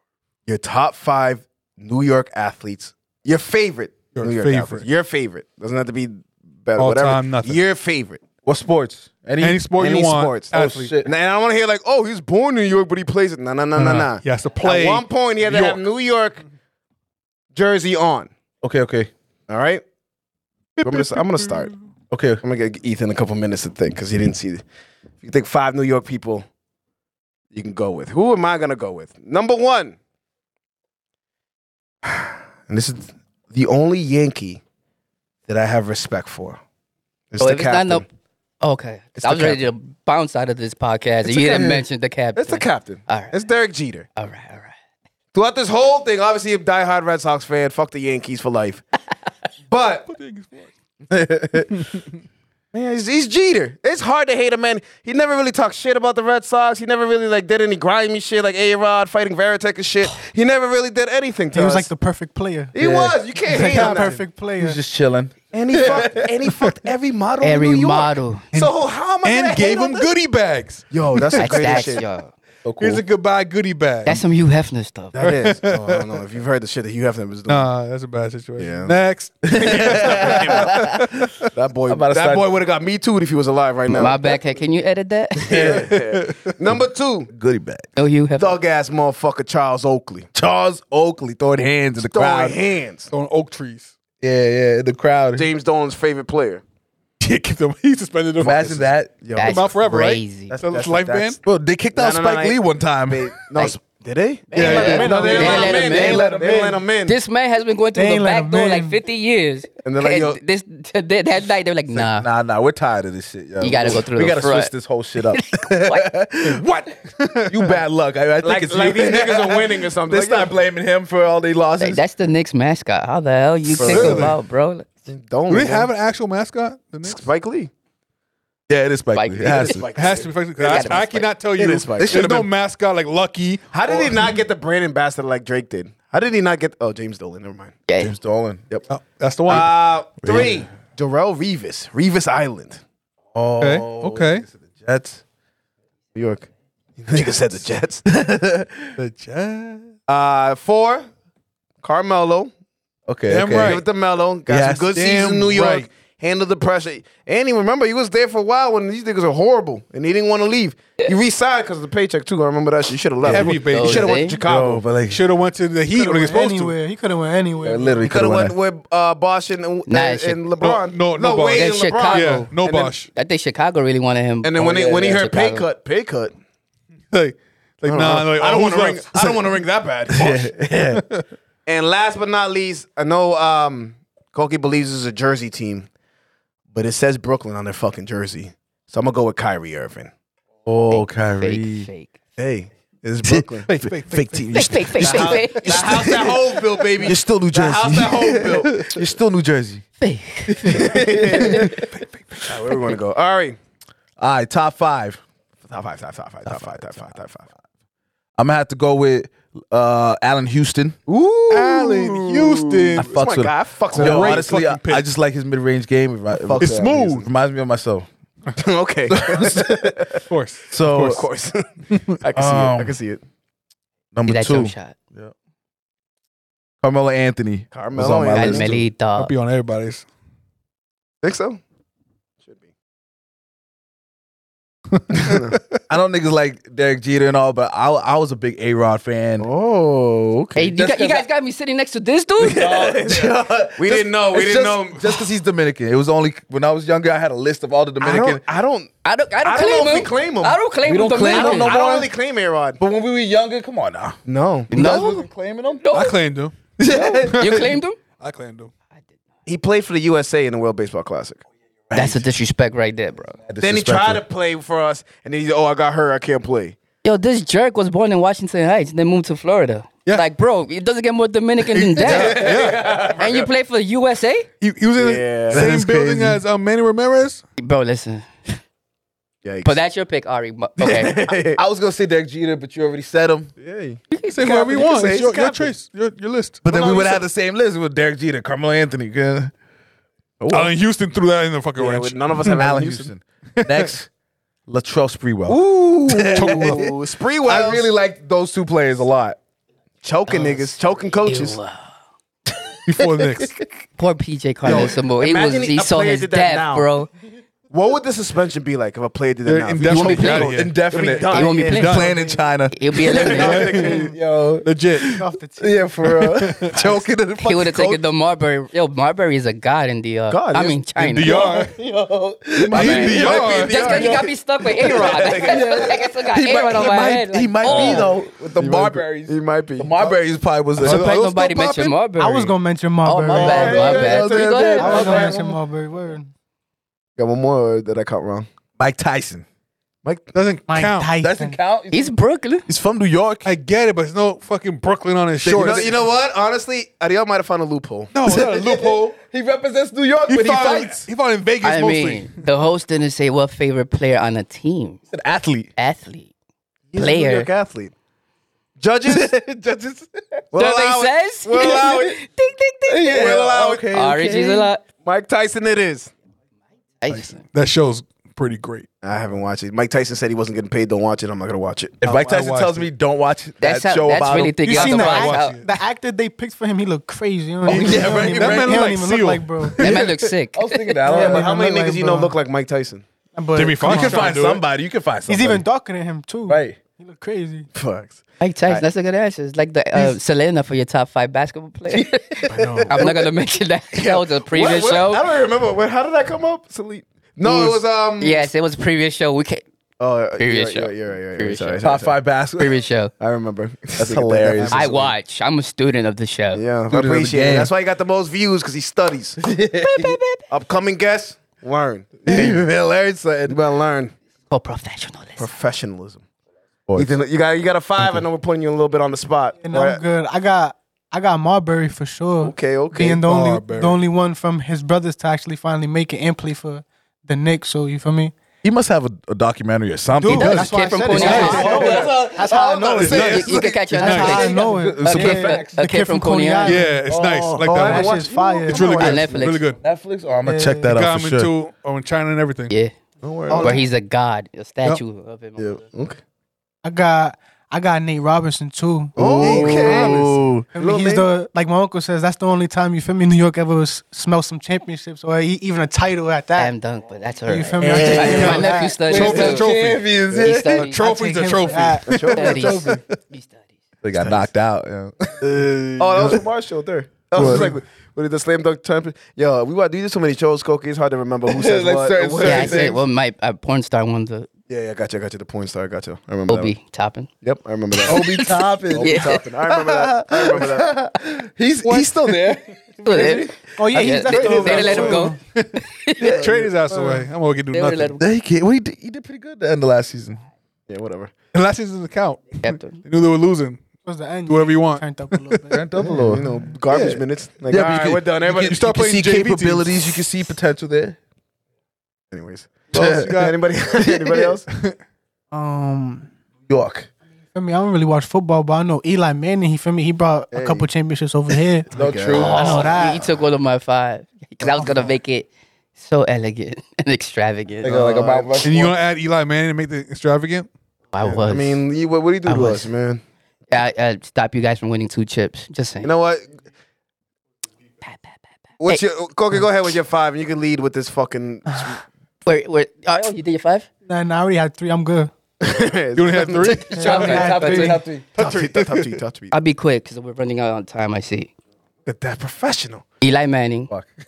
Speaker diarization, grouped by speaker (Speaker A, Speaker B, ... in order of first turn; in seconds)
Speaker A: 0.5-8.2, 9.8-16.4, 17.5-18.3, 19.5-19.8, 20.8-21.7, 22.4-24.6, 25.2-26.5, 27.5-30.0, 32.0-34.6, 35.5-36.6, 37.3-38.0, 39.2-39.6, 41.3-41.8, 42.4-44.1, 45.3-48.9, 49.7-50.1, 52.7-61.9, 62.7-64.2, 65.5-70.1, 70.9-72.0, 75.1-77.7, 78.6-78.9, 79.5-80.8, 81.5-84.2, 85.5-87.3, 88.3-90.3, 92.0-93.1, 95.3-96.6, 99.2-99.7, 100.5-101.4, 101.9-107.2, 109.8-110.4, 118.4-120.5, 123.8-124.3, 125.1-125.9, 127.0-127.7, 129.4-132.5, 133.7-137.7, 139.5-142.8, 146.1-148.0, 150.1-151.1, 151.8-152.5, 153.5-164.8, 168.0-172.9, 174.4-176.3, 177.8-180.5, 181.7-185.9, 186.7-190.1, 192.4-193.9, 195.0-199.0, 200.7-201.8, 202.4-203.6, 205.7-207.5, 211.1-214.6, 216.4-217.0, 218.6-220.2, 221.1-223.2, 227.7-228.7, 231.2-231.6, 235.1-235.6, 239.4-240.7, 242.5-245.2, 248.0-248.9, 249.4-250.6, 251.2-252.8, 254.2-254.7, 259.4-261.4, 263.6-266.7, 272.1-273.2, 275.0-275.6, 279.4-279.7, 280.8-281.6, 283.6-285.7, 286.6-287.2, 290.4-290.7, 291.8-293.1, 295.5-297.9, 300.0-301.6, 304.6-306.9, 307.7-311.9, 313.0-314.1, 320.3-321.4, 322.6-325.9, 327.6-330.1, 333.4-335.4, 337.2-338.5, 340.0-340.3, 345.5-348.1, 356.9-357.9, 358.8-359.4, 360.5-362.1, 363.0-363.9, 365.0-366.1, 369.0-372.0, 381.1-383.0, 387.7-388.8, 392.5-393.3, 393.9-398.4, 400.0-402.2, 403.2-405.1, 406.5-409.4, 410.5-412.7, 413.4-414.1, 415.4-416.2, 416.9-420.0, 422.4-423.2, 431.4-432.1, 437.7-439.4, 443.2-443.8, 445.6-446.2, 449.1-451.3, 462.0-462.9, 466.0-473.0, 474.7-476.7, 477.4-481.0, 484.5-485.1, 490.9-491.3, 496.1-498.8, 502.3-504.6, 510.5-510.9, 511.9-512.8, 517.8-518.6, 521.2-523.2, 526.0-526.5, 528.8-532.0, 535.6-537.4, 538.4-539.5, 542.0-543.0
Speaker B: 4.1-4.9, 6.8-7.6, 9.4-10.9, 13.7-15.8, 20.8-21.7, 50.1-50.7, 63.6-64.1, 68.5-71.8, 72.8-74.2, 75.2-76.2, 77.5-81.3, 93.1-93.9, 97.2-101.4, 104.5-105.7, 116.4-117.7, 123.8-124.3, 125.5-127.2, 129.9-134.3, 138.9-139.8, 143.6-144.4, 149.0-149.9, 153.3-153.8, 154.9-155.9, 163.2-164.2, 165.1-166.7, 170.6-173.1, 177.1-179.4, 180.9-181.2, 193.7-194.5, 211.5-213.2, 213.9-215.1, 216.6-217.2, 220.3-221.2, 229.2-230.0, 235.0-235.5, 255.9-256.6, 257.1-258.7, 271.7-273.1, 274.6-277.4, 284.3-286.6, 290.5-292.6, 293.6-293.9, 296.3-296.9, 302.9-303.6, 309.4-310.8, 311.6-312.1, 313.3-314.0, 314.6-315.2, 316.2-316.8, 321.0-321.7, 322.7-324.1, 330.8-331.9, 340.3-341.1, 343.4-345.9, 348.1-349.2, 350.3-352.4, 367.1-368.9, 372.0-372.9, 374.6-375.6, 377.6-380.2, 383.5-384.6, 423.1-424.0, 430.2-430.5, 431.1-431.6, 433.0-434.6, 436.6-439.8, 440.8-442.7, 449.4-450.3, 458.2-460.1, 460.7-462.2, 467.3-467.7, 481.8-482.4, 484.3-488.2, 491.5-493.8, 494.4-495.8, 496.9-497.2, 498.5-500.2, 502.9-503.6, 504.7-504.9, 518.6-520.7, 536.1-537.0, 538.4-539.2
Speaker C: 8.4-9.7, 10.5-11.1, 18.6-19.1, 22.1-22.4, 41.5-41.8, 51.1-51.8, 62.8-63.2, 64.6-66.3, 72.6-73.0, 79.4-81.2, 81.9-82.5, 85.5-86.0, 87.3-87.8, 90.3-92.6, 94.2-95.5, 98.4-99.2, 101.4-103.3, 104.8-106.8, 111.9-116.7, 117.4-122.0, 128.7-129.9, 132.0-132.3, 138.0-138.6, 140.2-140.7, 143.3-145.2, 148.1-148.9, 153.1-153.8, 154.5-154.9, 164.4-165.2, 167.6-168.5, 180.1-181.0, 190.6-191.9, 193.2-196.3, 197.0-199.8, 200.5-201.9, 204.2-205.2, 206.5-206.8, 208.4-211.0, 212.9-218.1, 219.1-219.9, 220.7-221.2, 222.3-222.9, 224.1-225.3, 226.8-228.8, 235.9-239.5, 240.7-241.2, 242.4-248.4, 250.8-252.1, 252.8-254.2, 254.7-255.8, 256.8-257.5, 261.9-262.2, 263.5-264.2, 272.1-272.7, 275.5-276.4, 280.8-283.5, 286.6-289.5, 292.4-294.1, 294.7-299.4, 303.0-303.5, 304.6-304.9, 310.0-318.0, 321.2-331.1, 333.2-335.6, 338.8-339.4, 341.2-342.1, 342.7-343.5, 345.4-346.0, 348.2-351.0, 355.1-355.7, 359.0-360.4, 361.6-362.1, 362.9-364.7, 372.0-374.7, 377.6-378.9, 380.5-381.5, 383.8-385.6, 386.5-386.8, 391.9-393.1, 397.4-397.8, 401.8-402.7, 404.0-405.1, 406.9-407.7, 409.4-410.1, 412.2-413.6, 416.9-417.1, 418.0-418.2, 428.6-435.8, 437.1-438.0, 439.8-441.5, 449.1-450.7, 457.8-460.9, 462.3-463.0, 464.0-466.4, 467.3-467.7, 471.4-473.0, 478.0-483.6, 486.2-486.7, 488.2-490.4, 495.7-496.5, 497.7-501.2, 502.9-503.4, 503.9-504.5, 506.7-507.1, 511.9-512.9, 517.8-518.9, 537.0-538.3
Speaker D: 37.4-38.0, 38.6-43.3, 44.1-44.7, 67.4-68.5, 71.3-72.3, 74.0-75.2, 83.9-85.8, 88.0-88.5, 99.3-100.5, 104.5-106.3, 107.0-112.3, 113.6-116.1, 121.8-124.9, 129.1-129.8, 130.6-131.3, 137.9-138.1, 163.4-164.4, 169.9-170.4, 171.5-172.5, 173.1-175.7, 190.9-192.1, 194.5-196.1, 200.0-201.7, 224.2-224.9, 228.3-229.3, 240.6-242.8, 249.0-251.8, 254.7-255.3, 255.8-256.1, 257.3-258.0, 261.9-263.4, 267.0-274.5, 277.6-278.6, 279.6-281.1, 284.1-284.4, 300.3-301.9, 304.0-307.1, 309.9-310.5, 311.3-312.1, 312.7-313.7, 317.4-321.4, 322.8-328.1, 330.8-335.3, 341.9-342.6, 351.6-355.0, 355.8-356.3, 356.9-357.5, 360.5-363.2, 363.9-364.8, 367.0-367.4, 373.6-375.6, 379.8-381.0, 388.4-395.2, 397.5-399.6, 400.4-401.8, 402.6-403.1, 404.7-406.6, 409.8-410.4, 414.5-415.5, 430.3-432.1, 433.0-436.8, 438.7-439.6, 443.6-445.8, 456.5-459.7, 460.4-461.7, 462.3-463.6, 472.4-474.5, 476.5-477.3, 478.0-479.4, 483.0-486.4, 487.7-488.2, 492.6-493.0, 512.3-518.0, 521.1-521.8, 522.4-522.9, 523.7-526.1, 528.0-529.0, 532.5-533.9, 536.9-538.0, 539.5-541.5, 543.2-543.9
Speaker E: 61.5-62.7, 63.4-64.8, 105.1-106.8, 107.9-109.0, 165.9-168.1, 312.0-312.3, 313.6-314.1, 315.1-316.1, 332.2-333.9, 334.8-336.3, 340.7-341.6, 374.4-379.9, 381.0-382.3, 383.3-384.4, 385.3-387.7, 392.6-393.0, 419.6-428.3, 430.2-433.4, 433.9-437.0, 437.7-439.3, 440.4-440.9, 443.5-443.8, 446.8-449.9, 450.7-456.7, 457.4-459.1, 461.0-462.3, 483.8-485.4, 486.9-487.3, 494.0-495.9, 505.5-506.3, 507.5-511.9, 512.4-513.2, 534.0-535.3, 536.9-538.0